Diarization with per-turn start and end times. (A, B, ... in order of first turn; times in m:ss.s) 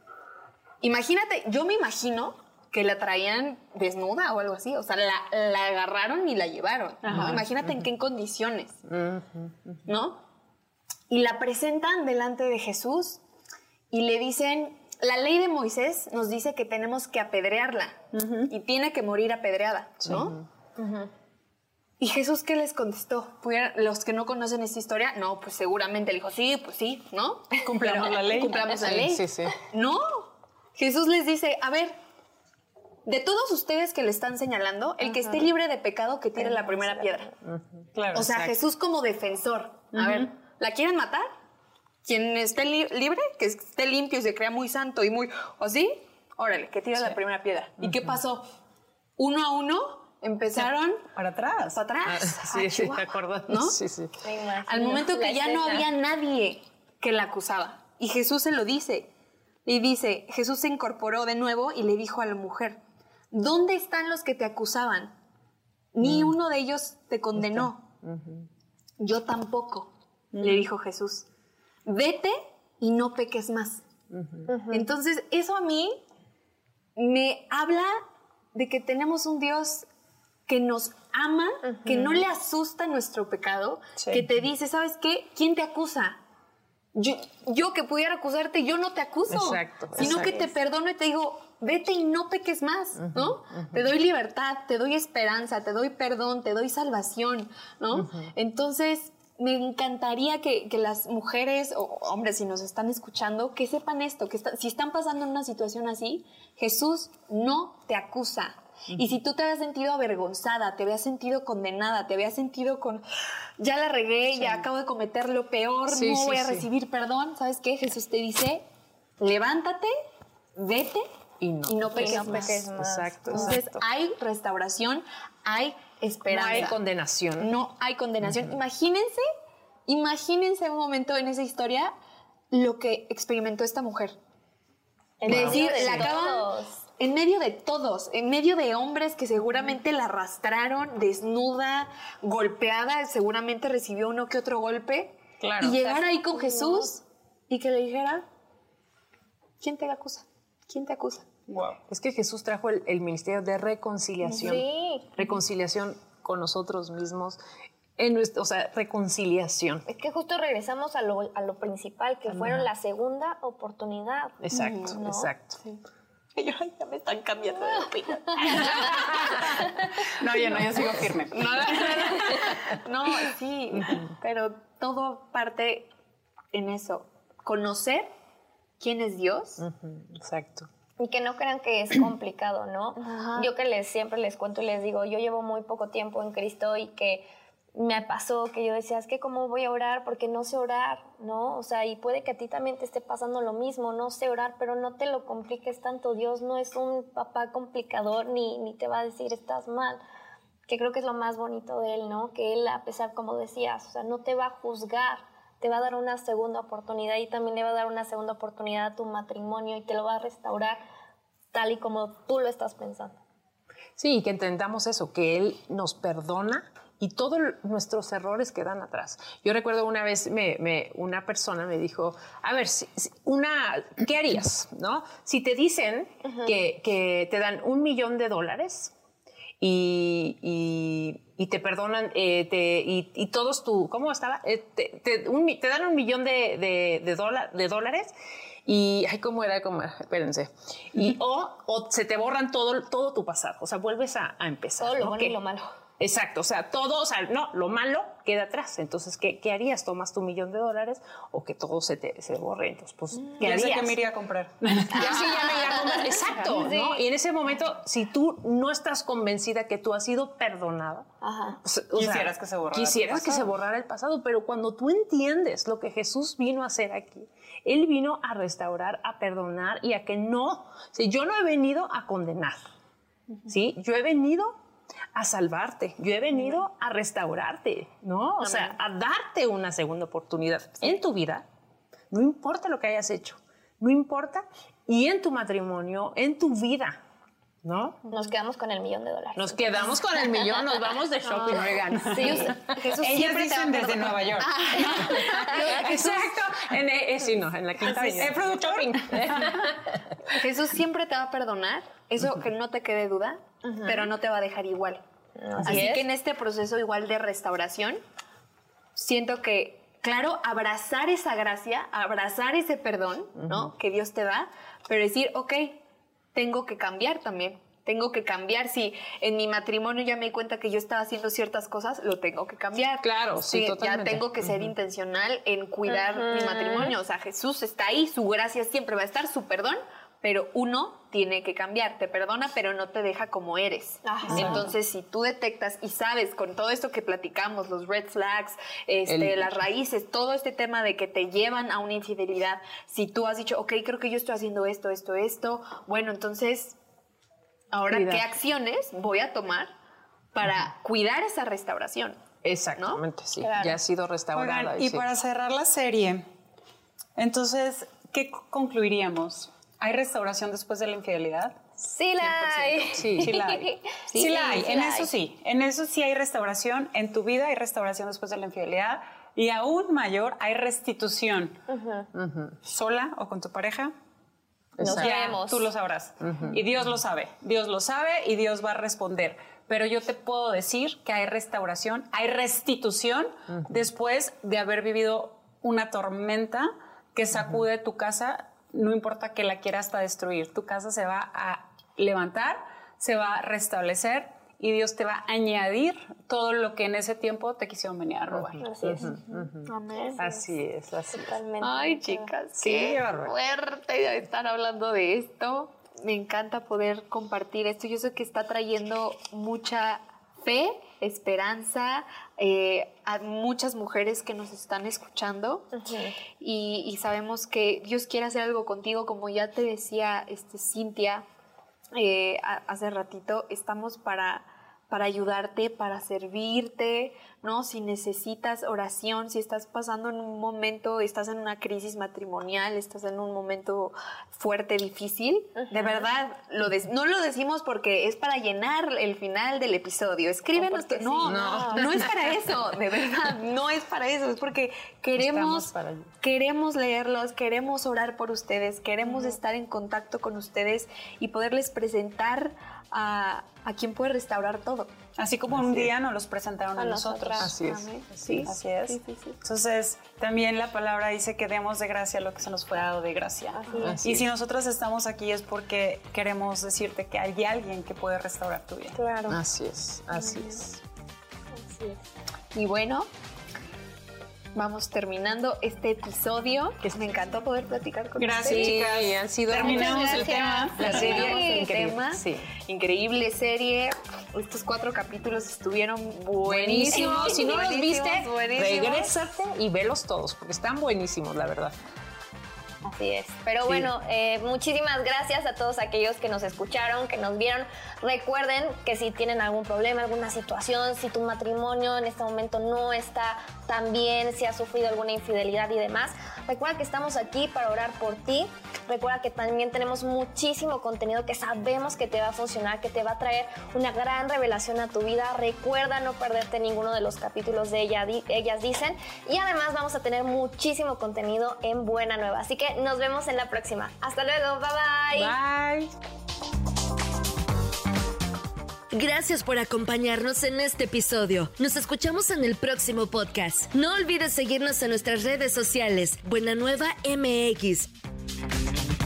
0:00.8-0:08.8 A
0:07.0-0:07.4 B
0:07.1-0:07.4 C
0:08.9-0:09.6 C
0:09.9-0:10.2 A
0:11.1-0:13.2 A
0:13.9-0:20.4 A
0:18.1-0:18.5 B
0:20.0-0:20.3 B
0:20.1-0:20.4 C
0:20.8-0:21.1 D
0:22.0-0:32.0 A
0:27.6-0:28.9 B
0:28.8-0:29.6 C
0:33.0-0:37.3 A
0:36.6-0:37.2 D
0:37.4-0:38.5 C
0:38.0-0:38.3 B
0:38.1-0:41.3 A
0:40.0-0:40.3 B
0:42.0-0:48.4 A
0:49.2-0:51.0 A
0:50.5-0:51.8 B
0:51.7-0:53.8 A
0:52.0-0:54.2 C
0:54.2-0:55.9 D
0:54.6-0:59.1 A
0:59.7-1:05.2 A
1:05.9-1:07.9 A
1:06.0-1:06.3 C
1:07.4-1:08.5 C
1:09.0-1:11.3 A
1:10.3-1:10.7 B
1:11.9-1:13.8 A
1:14.2-1:14.4 C
1:14.5-1:14.9 D
1:14.7-1:16.0 A
1:17.0-1:18.0 A
1:18.5-1:19.9 A
1:20.5-1:26.2 A
1:21.7-1:22.1 D
1:24.0-1:24.3 B
1:27.0-1:53.0 A
1:29.3-1:30.5 C
1:30.0-1:30.4 D
1:33.0-1:33.8 C
1:38.0-1:38.3 C
1:53.6-1:58.6 A
1:54.4-1:54.7 B
1:55.9-1:56.7 C
1:59.2-1:59.9 A
2:00.6-2:01.1 A
2:01.4-2:03.8 C
2:01.7-2:02.6 A
2:01.9-2:03.6 D
2:03.3-2:06.8 A
2:06.3-2:07.5 C
2:07.4-2:09.3 A
2:09.9-2:11.9 A
2:12.5-2:14.2 A
2:15.2-2:16.8 D
2:15.2-2:16.1 C
2:15.2-2:28.2 A
2:25.4-2:25.8 B
2:25.8-2:26.9 D
2:29.6-2:31.3 A
2:31.5-2:31.8 B
2:31.9-2:37.4 C
2:34.2-2:35.1 D
2:38.0-2:39.8 C
2:39.9-2:45.3 D
2:42.3-2:42.7 C
2:44.4-2:45.6 C
2:44.5-2:45.0 A
2:46.4-2:49.7 A
2:49.3-2:52.4 B
2:51.3-2:55.9 A
2:53.8-2:54.1 C
2:56.5-2:58.1 A
2:58.8-2:59.6 A
2:59.6-3:00.7 C
3:01.0-3:20.0 D
3:03.0-3:03.5 A
3:20.7-3:30.8 D
3:31.5-3:33.2 D
3:34.0-3:48.9 C
3:49.6-3:58.1 C
3:58.7-4:05.4 C
4:04.8-4:05.7 D
4:06.0-4:14.0 C
4:13.4-4:16.4 B
4:14.9-4:21.1 C
4:16.3-4:17.0 D
4:21.2-4:21.6 D
4:21.6-4:32.6 C
4:21.9-4:23.5 B
4:33.5-4:34.6 C
4:35.2-4:41.5 C
4:38.4-4:38.8 A
4:42.1-4:47.0 C
4:47.6-4:48.0 C
4:48.1-4:50.7 D
4:49.4-4:52.7 C
4:51.2-4:52.6 D
4:52.1-4:56.7 B
4:52.2-4:56.0 A
4:55.0-5:00.0 C
4:57.8-4:59.8 B
5:00.3-5:05.0 A
5:03.6-5:04.1 D
5:05.4-5:06.1 D
5:05.6-5:08.0 A
5:09.0-5:15.8 A
5:13.4-5:13.7 C
5:16.3-5:46.8 A
5:23.0-5:24.5 C
5:25.9-5:26.9 D
5:34.0-5:34.7 D
5:34.3-5:34.7 C
5:39.1-5:39.6 C
5:47.7-5:49.7 A
5:47.9-5:48.3 C
5:50.3-5:52.2 A
5:52.4-5:55.1 C
5:52.8-5:53.0 A
5:53.4-5:53.8 D
5:54.3-5:56.2 B
5:57.2-6:01.6 B
6:01.8-6:05.1 D
6:02.2-6:11.6 B
6:03.0-6:03.4 C
6:11.7-6:12.1 D
6:12.1-6:12.6 C
6:12.6-6:13.9 B
6:14.8-6:15.2 C
6:14.8-6:15.7 D
6:14.8-6:38.6 B
6:16.2-6:16.6 C
6:38.3-6:41.4 C
6:38.6-6:39.5 D
6:39.6-6:40.4 A
6:40.0-6:40.3 D
6:41.1-6:42.3 D
6:41.6-6:55.7 A
6:42.6-6:43.4 C
6:55.8-6:56.2 D
6:56.4-7:01.2 A
7:01.9-7:34.9 A
7:20.6-7:22.1 D
7:21.2-7:22.1 C
7:25.2-7:26.1 C
7:29.0-7:29.4 D
7:35.2-7:37.6 B
7:35.5-7:35.9 C
7:36.8-7:38.4 D
7:37.4-7:38.5 C
7:38.2-7:39.4 A
7:38.4-7:49.0 B
7:43.5-7:44.0 D
7:43.8-7:44.3 C
7:49.0-7:49.4 D
7:49.3-7:50.8 C
7:51.6-7:52.0 D
7:52.5-7:53.1 A
7:54.6-7:58.8 A
7:58.2-8:01.3 B
7:58.4-8:02.5 C
7:59.7-8:09.2 A
7:59.7-8:01.7 D
8:06.4-8:11.8 C
8:12.8-8:45.4 D
8:45.2-8:45.9 B
8:48.9-8:57.9 E